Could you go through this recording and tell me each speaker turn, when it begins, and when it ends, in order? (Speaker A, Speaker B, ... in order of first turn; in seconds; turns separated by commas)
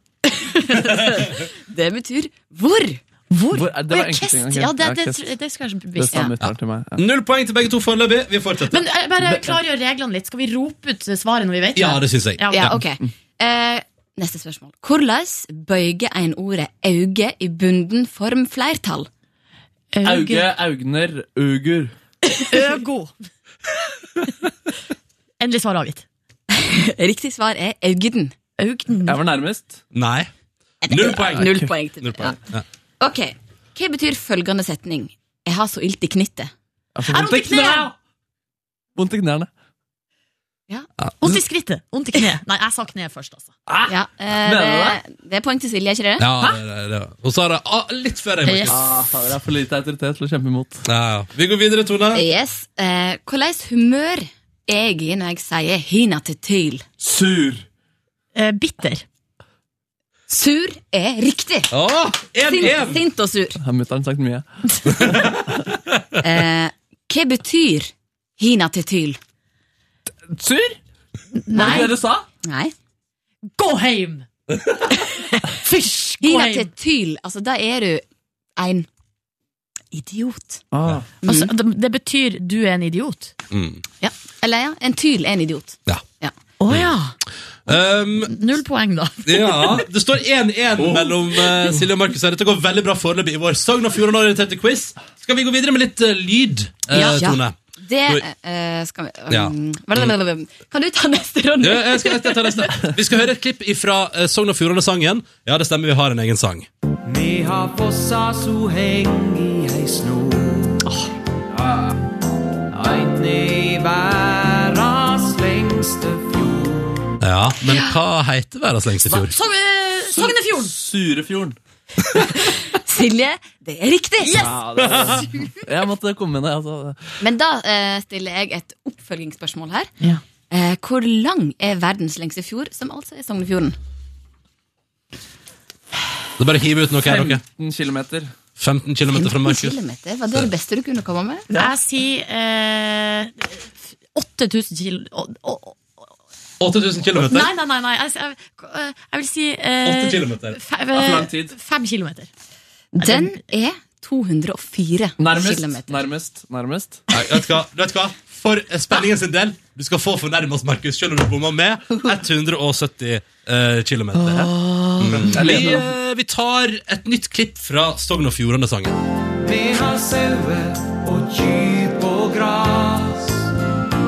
Speaker A: 0.2-3.0, Speaker B: 3.3-6.3, Speaker C: 3.5-5.3, Speaker C: 6.0-7.0, Speaker D: 6.4-8.8, Speaker B: 8.7-12.7, Speaker C: 9.2-9.6, Speaker D: 11.8-12.8, Speaker A: 12.5-19.1, Speaker B: 19.9-20.5, Speaker C: 20.0-21.9, Speaker B: 22.5-23.1, Speaker B: 25.4-26.1, Speaker A: 26.5-28.4, Speaker B: 28.6-29.2, Speaker C: 29.1-29.8, Speaker D: 29.9-30.3, Speaker A: 30.8-32.4, Speaker D: 30.9-32.6, Speaker C: 31.4-31.6, Speaker A: 33.0-36.5, Speaker C: 37.0-37.9, Speaker B: 37.1-37.9, Speaker C: 39.0-39.5, Speaker D: 41.0-41.4, Speaker B: 41.2-43.5, Speaker C: 43.7-45.0, Speaker A: 43.9-46.3, Speaker D: 46.2-48.8, Speaker B: 48.5-48.7, Speaker C: 48.7-50.9, Speaker D: 50.9-52.2, Speaker A: 52.1-56.9, Speaker C: 57.0-57.6, Speaker B: 58.4-59.0, Speaker A: 60.3-61.7, Speaker D: 61.7-63.0, Speaker A: 62.4-63.6, Speaker C: 63.6-64.4, Speaker D: 64.9-66.0, Speaker A: 66.2-69.2, Speaker C: 70.3-70.8, Speaker B: 71.4-71.9, Speaker A: 71.5-71.9, Speaker C: 71.5-72.2, Speaker A: 72.4-72.7, Speaker B: 73.6-74.3, Speaker B: 74.9-76.7, Speaker A: 76.2-78.0, Speaker A: 78.6-78.9, Speaker A: 79.9-80.6, Speaker C: 80.7-81.0, Speaker B: 81.2-83.3, Speaker A: 81.2-81.5, Speaker D: 83.5-83.8, Speaker A: 84.0-86.3, Speaker B: 86.6-87.2, Speaker D: 87.7-88.4, Speaker B: 87.7-89.8, Speaker D: 89.2-98.2, Speaker C: 90.8-91.2, Speaker A: 96.9-102.7, Speaker D: 99.3-100.2, Speaker D: 101.6-106.7, Speaker E: 107.1-110.8, Speaker E: 112.7-117.1, Speaker D: 117.2-119.3, Speaker A: 117.7-118.0, Speaker B: 119.1-120.7, Speaker C: 120.2-121.6, Speaker A: 122.5-124.5, Speaker B: 124.2-124.6, Speaker C: 124.8-127.0, Speaker A: 127.2-129.9, Speaker A: 130.5-133.8, Speaker D: 136.4-137.4, Speaker C: 137.1-138.3, Speaker D: 138.6-139.8, Speaker A: 139.2-141.4, Speaker B: 141.5-146.0, Speaker D: 146.6-147.5, Speaker B: 147.2-152.3, Speaker D: 149.8-150.6, Speaker C: 150.9-151.5, Speaker A: 152.9-156.0, Speaker B: 153.0-153.4, Speaker C: 155.2-157.0, Speaker D: 157.1-169.0, Speaker C: 164.2-164.6, Speaker A: 164.8-165.6, Speaker C: 165.2-165.9, Speaker E: 169.4-173.5